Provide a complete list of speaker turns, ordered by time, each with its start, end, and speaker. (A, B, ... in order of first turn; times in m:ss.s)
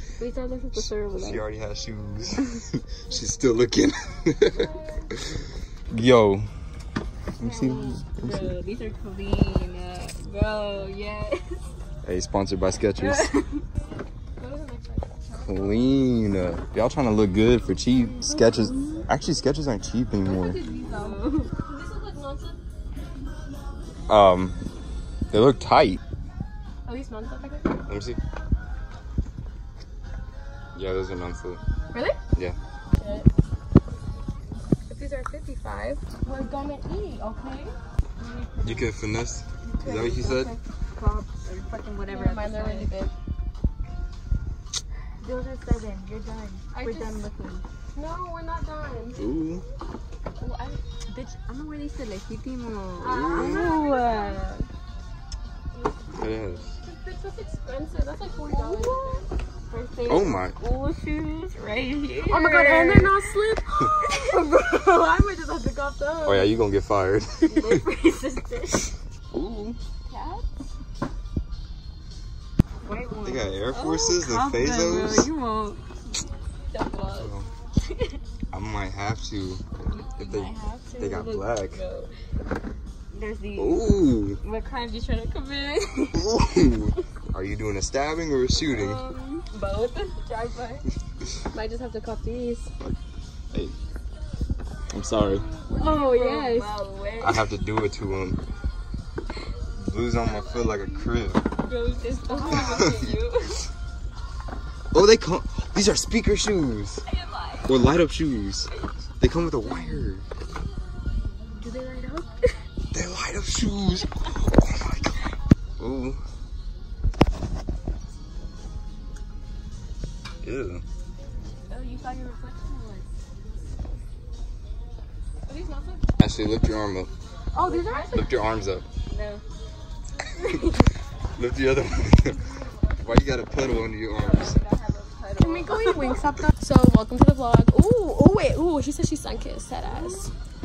0:00.2-0:01.4 A
0:00.7-0:04.7 B
0:04.6-0:05.0 C
0:05.9-0:06.5 B
0:07.4-0:08.5 B
0:07.4-0:11.6 A
0:12.0-0:13.3 B
0:12.9-0:13.6 A
0:14.4-0:15.8 C
0:15.4-0:20.6 B
0:18.2-0:19.1 A
0:20.3-0:21.5 A
0:20.6-0:22.6 C
0:24.1-0:24.6 B
0:25.3-0:26.0 B
0:26.8-0:27.8 C
0:27.9-0:28.2 B
0:30.7-0:31.6 B
0:31.9-0:32.2 C
0:33.0-0:33.3 C
0:34.9-0:37.7 C
0:38.2-0:38.8 A
0:38.6-0:40.5 B
0:39.8-0:42.9 A
0:42.1-0:43.1 C
0:45.2-0:47.6 A
0:46.7-0:47.2 C
0:47.9-0:49.2 C
0:49.2-0:49.6 B
0:50.4-0:54.6 A
0:53.0-0:54.4 C
0:53.1-0:53.7 B
0:55.7-0:56.1 C
0:56.1-0:56.7 B
0:56.8-0:59.2 C
0:58.5-1:03.1 A
1:00.1-1:00.6 B
1:02.2-1:06.6 C
1:06.2-1:07.8 B
1:07.5-1:08.9 A
1:09.3-1:09.8 B
1:10.1-1:10.4 A
1:12.8-1:15.8 A
1:13.2-1:15.3 B
1:16.7-1:17.3 A
1:17.0-1:17.5 B
1:17.9-1:18.2 A
1:18.5-1:19.6 B
1:19.9-1:22.1 A
1:20.2-1:21.8 B
1:23.1-1:26.2 A
1:23.6-1:24.4 B
1:26.1-1:29.0 B
1:28.7-1:30.8 A
1:31.5-1:32.7 C
1:34.9-1:35.4 B
1:35.5-1:37.5 A
1:35.7-1:36.7 C
1:37.2-1:38.4 B
1:39.8-1:41.4 B
1:40.4-1:40.8 A
1:41.6-1:43.6 A
1:42.3-1:42.9 C
1:42.5-1:43.1 B
1:44.9-1:47.0 B
1:47.1-1:47.7 A
1:47.6-1:50.2 B
1:49.7-1:50.0 A
1:51.6-1:52.2 C
1:52.9-1:55.2 B
1:55.8-1:56.2 B
2:00.4-2:00.8 B
2:01.7-2:03.0 A
2:05.5-2:06.0 C
2:06.2-2:07.1 B
2:07.5-2:08.3 C
2:07.6-2:08.2 A
2:08.1-2:08.8 B
2:09.0-2:09.4 A
2:10.3-2:10.9 A
2:11.4-2:12.4 B
2:13.0-2:14.6 B
2:14.1-2:16.2 A
2:15.4-2:20.3 C
2:19.8-2:20.3 A